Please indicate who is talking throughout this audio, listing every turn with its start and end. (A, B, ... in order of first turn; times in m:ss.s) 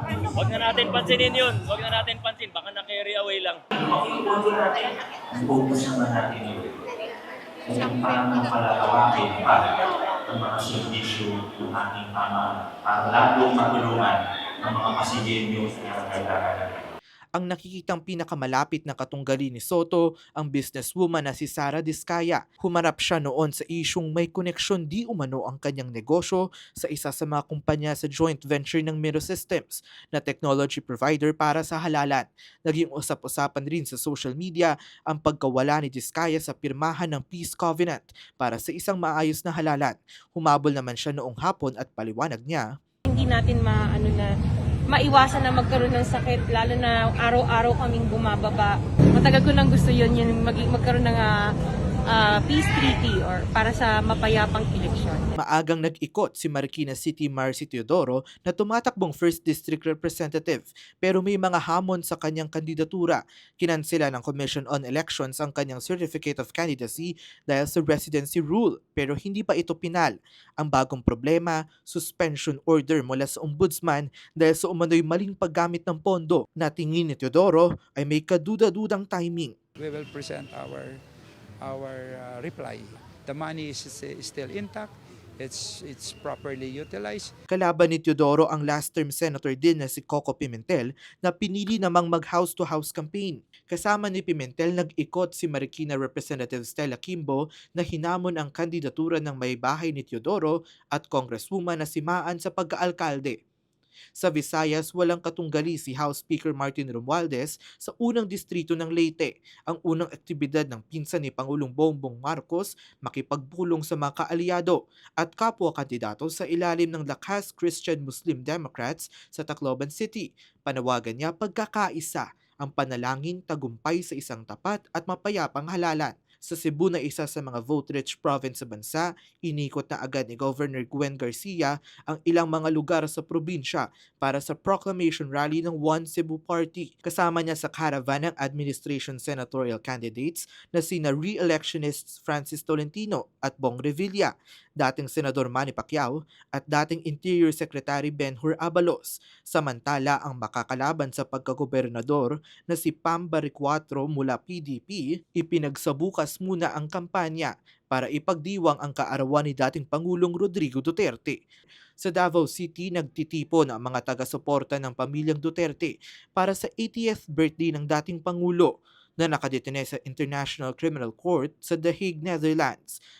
0:00.4-0:03.6 A
0:03.8-0:06.7 B
0:07.6-0:09.7 B
0:10.3-0:16.7 B
0:17.3-0:42.7 C
0:43.1-0:44.3 D
0:44.9-0:51.3 D
0:52.1-0:55.2 D
0:55.4-1:19.5 C
1:19.8-1:21.0 E
1:21.6-1:27.3 E
1:27.5-1:43.4 C
1:44.2-2:41.4 C
2:42.0-2:53.0 C